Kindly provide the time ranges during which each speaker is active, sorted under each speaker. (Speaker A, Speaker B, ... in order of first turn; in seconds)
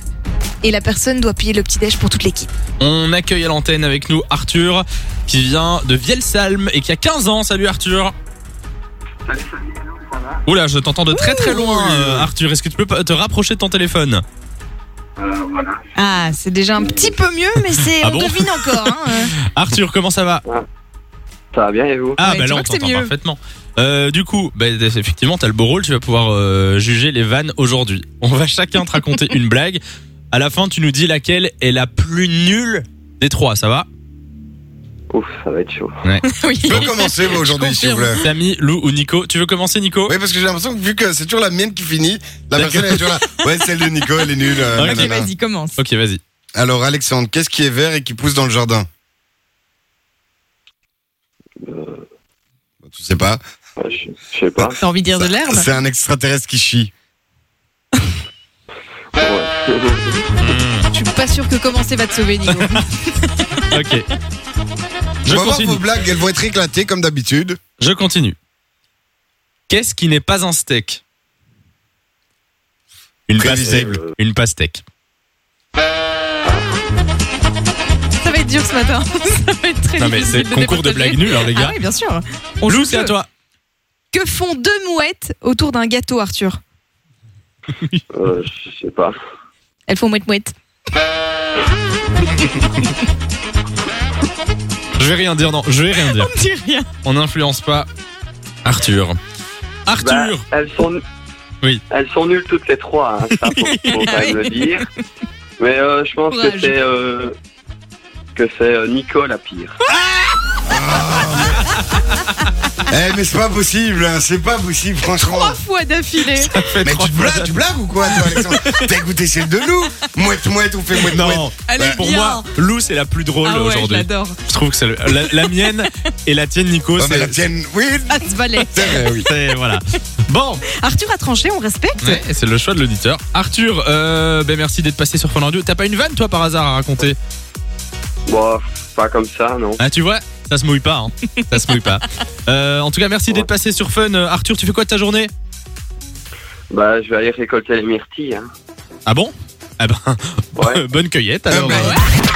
Speaker A: 0.6-2.5, 11.1-12.0, 15.9-19.4, 22.2-23.1, 36.2-38.2, 44.8-45.8, 54.8-55.7, 60.9-63.7, 78.2-83.2, 84.1-86.6, 89.9-90.5, 96.0-96.9, 103.6-104.8, 106.3-106.7, 115.2-116.5, 121.6-122.5, 123.4-124.4, 125.1-125.9, 128.1-129.2, 130.8-132.2, 141.5-142.0, 151.7-152.0
Speaker B: 2.8-8.1, 10.5-14.2, 18.0-20.4, 22.2-33.9, 36.0-36.9, 38.2-40.1, 42.5-43.1, 44.8-45.1, 45.8-46.2, 60.4-60.9, 62.5-62.8, 63.7-64.1, 65.2-65.8, 67.8-68.4, 69.7-71.0, 73.3-74.8, 80.0-81.8, 82.7-83.3, 87.7-88.0, 95.0-96.3, 97.0-97.9, 98.6-99.2, 99.9-100.4, 116.5-118.8, 121.1-127.4, 129.2-130.7, 132.0-137.2, 139.8-145.3, 149.1-152.0
Speaker C: 9.2-10.4, 15.2-15.9, 21.5-22.2, 35.1-36.0, 51.6-52.0, 53.8-54.8, 59.2-60.2, 88.1-89.1, 100.0-101.0, 101.9-104.9, 105.6-107.3, 108.4-109.8, 138.3-139.8, 146.7-148.5, 150.6-150.8
Speaker D: 11.8-12.3, 36.6-38.3, 40.1-45.3, 46.5-48.9, 52.8-53.4, 55.1-56.9, 65.3-67.6, 73.4-73.9, 110.6-111.7, 112.9-115.6, 116.6-122.0, 127.0-129.3, 151.5-152.0